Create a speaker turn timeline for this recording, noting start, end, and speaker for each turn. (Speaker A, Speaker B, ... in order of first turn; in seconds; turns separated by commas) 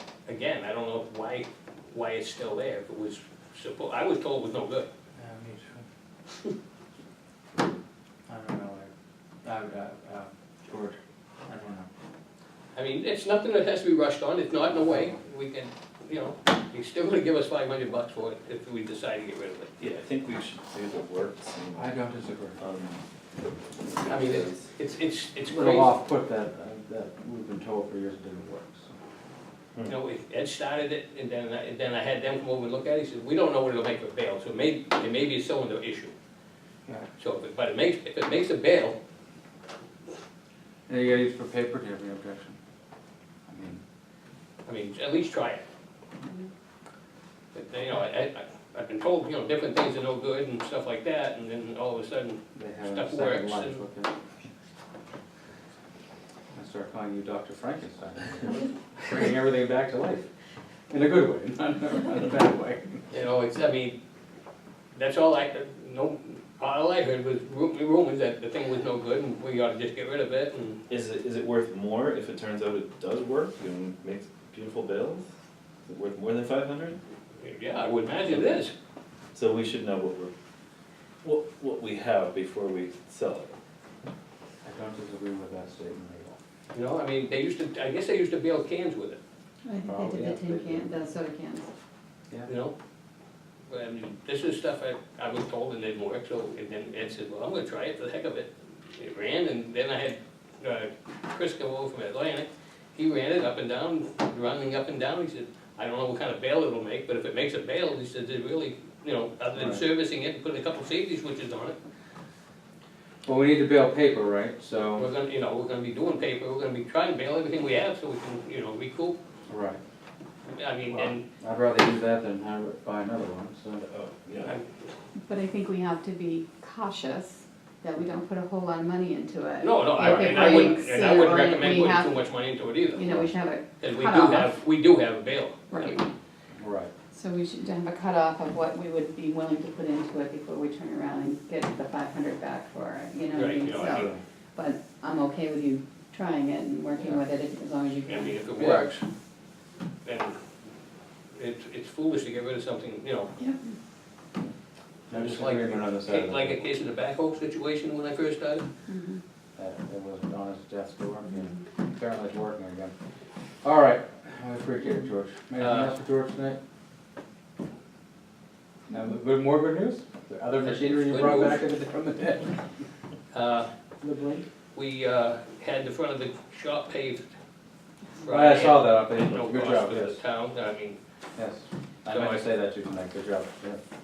Speaker A: 0.2-4.9, Speaker B: 5.2-5.8, Speaker B: 8.3-8.9, Speaker B: 9.4-11.9, Speaker A: 12.7-19.7, Speaker B: 14.8-15.1, Speaker C: 19.8-22.0, Speaker B: 21.7-22.6, Speaker C: 22.6-23.0, Speaker C: 23.8-24.7, Speaker A: 24.1-25.9, Speaker B: 25.5-28.9, Speaker A: 29.9-36.1, Speaker A: 37.2-39.0, Speaker B: 40.9-42.6, Speaker B: 43.5-43.8, Speaker A: 44.6-45.6, Speaker A: 47.5-53.8, Speaker B: 52.5-54.1, Speaker B: 56.5-60.3, Speaker B: 60.9-63.1, Speaker A: 63.1-64.0, Speaker A: 64.9-70.8, Speaker C: 70.9-75.3, Speaker C: 75.8-77.0, Speaker A: 77.4-78.7, Speaker C: 78.3-78.6, Speaker C: 79.3-80.3, Speaker C: 81.2-83.5, Speaker B: 84.6-86.4, Speaker A: 86.7-89.2, Speaker D: 89.6-91.7, Speaker B: 89.8-90.9, Speaker A: 92.5-92.7, Speaker A: 93.7-111.8, Speaker B: 109.5-109.8, Speaker B: 113.2-115.1, Speaker A: 115.0-119.2, Speaker B: 119.5-119.8, Speaker A: 120.5-121.2, Speaker B: 120.9-123.9, Speaker C: 123.9-124.5, Speaker A: 124.4-124.7, Speaker D: 125.2-132.3, Speaker A: 129.6-133.1, Speaker D: 132.9-134.5, Speaker A: 133.8-136.0, Speaker D: 135.7-136.1, Speaker B: 136.5-136.9, Speaker D: 137.1-148.4, Speaker A: 143.3-144.1, Speaker B: 143.8-144.2, Speaker A: 148.0-149.1, Speaker B: 148.6-148.9, Speaker A: 150.0-150.4, Speaker A: 151.3-153.3, Speaker D: 153.4-153.8, Speaker B: 155.1-156.6, Speaker A: 155.1-158.7, Speaker D: 158.9-159.2, Speaker B: 159.6-162.9, Speaker D: 161.2-161.6, Speaker B: 163.6-166.6, Speaker A: 165.6-165.9, Speaker B: 168.9-172.6, Speaker A: 170.6-171.6, Speaker A: 173.3-173.7, Speaker B: 174.0-174.4, Speaker A: 174.7-177.3, Speaker A: 178.2-181.0, Speaker B: 178.2-180.2, Speaker B: 181.3-183.8, Speaker A: 182.1-182.4